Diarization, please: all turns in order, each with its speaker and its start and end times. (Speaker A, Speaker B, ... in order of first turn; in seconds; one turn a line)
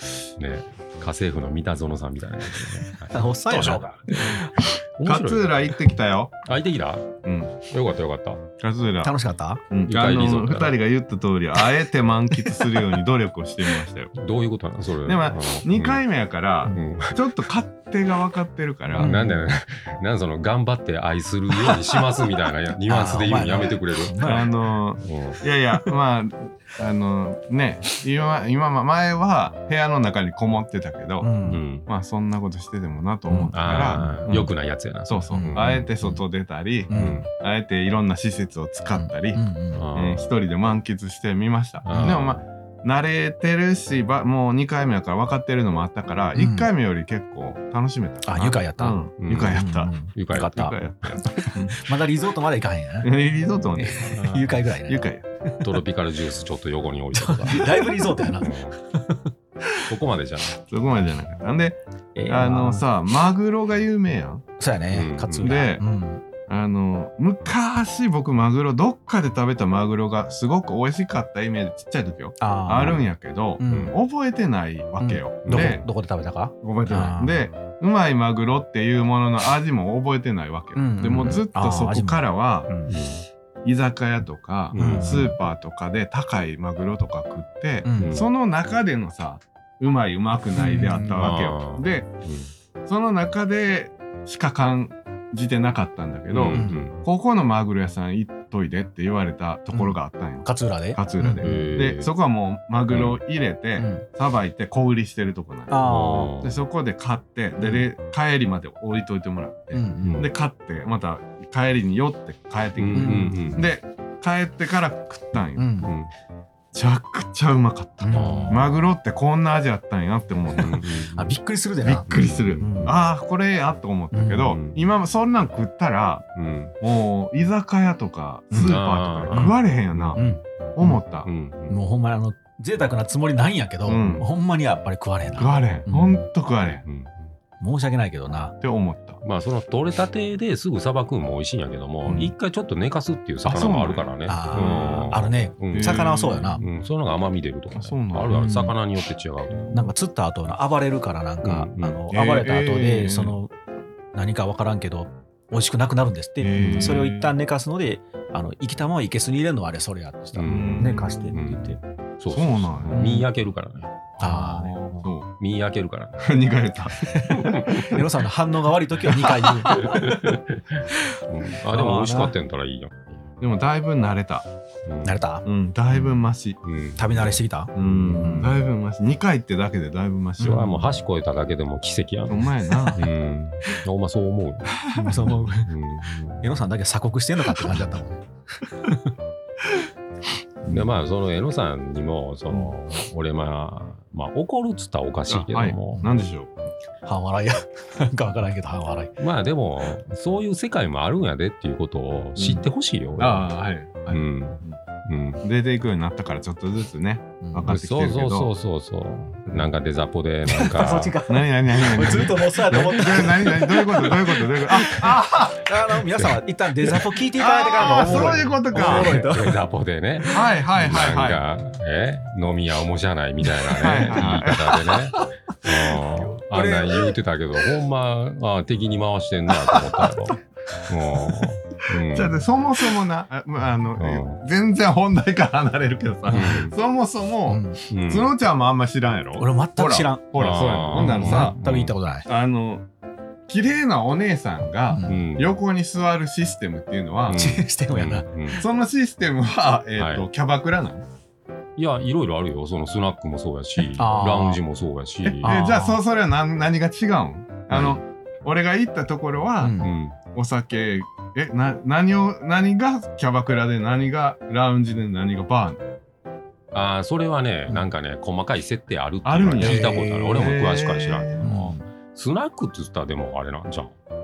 Speaker A: 0.4-5.7
Speaker B: 2.8-4.7
Speaker C: 5.0-6.4
Speaker A: 6.5-8.4
Speaker C: 7.2-7.5
Speaker C: 8.6-9.2
Speaker B: 9.0-9.6
Speaker C: 9.7-14.1
Speaker A: 9.8-10.8
Speaker A: 14.1-16.0
Speaker C: 15.1-19.1
Speaker A: 16.7-17.4
Speaker A: 19.0-24.4
Speaker B: 19.0-19.4
Speaker B: 21.5-22.0
Speaker B: 22.9-24.6
Speaker C: 24.2-31.3
Speaker A: 25.0-25.4
Speaker B: 31.2-31.6
Speaker A: 31.4-31.9
Speaker C: 31.9-34.5
Speaker B: 33.3-34.3
Speaker A: 33.5-35.9
Speaker C: 35.1-39.4
Speaker B: 35.3-36.2
Speaker B: 36.9-37.2
Speaker A: 36.9-37.3
Speaker B: 38.9-39.9
Speaker A: 39.7-40.3
Speaker C: 39.9-51.8
Speaker A: 41.9-42.4
Speaker B: 46.4-46.7
Speaker B: 48.2-55.7
Speaker A: 49.2-51.1
Speaker C: 53.0-54.3
Speaker A: 54.1-54.6
Speaker C: 54.8-55.2
Speaker A: 55.6-58.8
Speaker B: 57.1-59.3
Speaker A: 59.9-60.6
Speaker C: 60.7-64.5
Speaker B: 62.2-62.9
Speaker B: 64.6-66.2
Speaker A: 64.9-65.6
Speaker C: 65.4-65.8
Speaker C: 66.5-75.8
Speaker B: 72.4-73.0
Speaker B: 73.6-74.0
Speaker B: 75.0-77.5
Speaker A: 75.5-75.8
Speaker C: 76.6-82.7
Speaker B: 80.8-83.0
Speaker A: 82.9-83.2
Speaker C: 83.6-92.1
Speaker A: 84.7-85.3
Speaker B: 84.8-85.3
Speaker B: 87.8-88.2
Speaker A: 88.0-88.3
Speaker B: 90.5-91.3
Speaker A: 91.2-92.5
Speaker C: 92.8-105.8
Speaker A: 96.3-97.0
Speaker B: 96.5-96.8
Speaker B: 99.7-101.6
Speaker A: 101.4-102.1
Speaker A: 102.9-103.2
Speaker B: 103.8-104.0
Speaker B: 105.7-106.3
Speaker A: 105.8-106.6
Speaker C: 106.4-115.8
Speaker B: 109.7-110.3
Speaker A: 110.0-110.3
Speaker A: 112.8-113.7
Speaker B: 112.9-113.6
Speaker B: 115.6-115.9
Speaker A: 115.8-116.1
Speaker C: 116.7-120.8
Speaker B: 118.0-118.6
Speaker A: 118.1-118.8
Speaker A: 120.5-121.3
Speaker B: 121.2-122.9
Speaker C: 121.8-126.3
Speaker A: 122.1-123.0
Speaker B: 124.1-124.5
Speaker A: 124.4-124.8
Speaker A: 126.3-126.7
Speaker C: 126.8-130.2
Speaker A: 128.5-130.3
Speaker B: 130.2-131.0
Speaker C: 130.8-131.3
Speaker A: 131.2-131.8
Speaker B: 131.7-136.2
Speaker C: 133.9-134.3
Speaker C: 135.4-136.8
Speaker A: 136.8-137.3
Speaker B: 137.6-138.6
Speaker C: 138.6-139.2
Speaker A: 139.2-149.8
Speaker C: 142.1-142.3
Speaker C: 143.4-145.2
Speaker B: 144.3-146.6
Speaker C: 145.7-146.6
Speaker C: 147.7-148.4
Speaker B: 148.3-148.8
Speaker C: 149.5-149.8
Speaker B: 149.7-153.5
Speaker A: 151.4-152.0
Speaker C: 152.1-153.4
Speaker B: 154.1-161.8
Speaker C: 156.4-157.3
Speaker A: 156.6-157.0
Speaker A: 160.3-164.3
Speaker C: 160.5-161.1
Speaker C: 162.3-163.1
Speaker B: 162.9-163.3
Speaker B: 164.2-165.1
Speaker C: 164.2-165.3
Speaker A: 165.4-166.5
Speaker C: 166.2-167.1
Speaker B: 167.0-170.3
Speaker A: 167.3-168.0
Speaker A: 169.7-173.3
Speaker B: 170.9-172.3
Speaker C: 173.4-174.5
Speaker A: 174.9-175.2
Speaker B: 175.0-175.4
Speaker C: 175.4-176.6
Speaker A: 176.6-178.6
Speaker B: 177.0-178.6
Speaker C: 177.8-180.9
Speaker B: 180.4-180.7
Speaker A: 180.4-186.6
Speaker C: 182.3-183.1
Speaker B: 182.7-183.0
Speaker B: 184.9-185.7
Speaker B: 186.4-189.1
Speaker A: 190.7-196.1
Speaker C: 195.3-196.5
Speaker B: 197.1-199.1
Speaker A: 199.2-203.5
Speaker C: 202.4-202.6
Speaker C: 203.2-204.8
Speaker A: 204.1-205.4
Speaker C: 205.4-208.5
Speaker B: 207.4-207.7
Speaker A: 207.7-211.2
Speaker B: 210.5-219.6
Speaker C: 211.3-215.8
Speaker A: 216.2-216.4
Speaker C: 217.3-219.2
Speaker A: 218.0-232.5
Speaker C: 220.3-221.4
Speaker C: 223.8-225.1
Speaker B: 224.0-224.4
Speaker B: 225.9-227.2
Speaker C: 229.6-230.1
Speaker C: 231.2-241.6
Speaker A: 234.0-234.4
Speaker B: 236.3-236.7
Speaker A: 236.3-236.7
Speaker B: 237.5-237.8
Speaker A: 237.9-238.3
Speaker B: 239.4-242.3
Speaker A: 240.4-241.9
Speaker C: 242.3-242.8
Speaker C: 243.5-247.4
Speaker B: 244.9-245.3
Speaker A: 245.1-245.6
Speaker A: 247.3-248.7
Speaker B: 247.3-248.3
Speaker C: 248.6-251.0
Speaker A: 250.0-250.3
Speaker A: 251.8-255.6
Speaker B: 253.9-254.6
Speaker C: 255.4-259.8
Speaker B: 255.4-256.0
Speaker A: 257.7-258.0
Speaker B: 259.6-259.9
Speaker A: 259.8-260.2
Speaker C: 260.3-265.9
Speaker A: 266.7-274.0
Speaker C: 269.2-271.5
Speaker B: 269.6-270.3
Speaker B: 271.4-271.8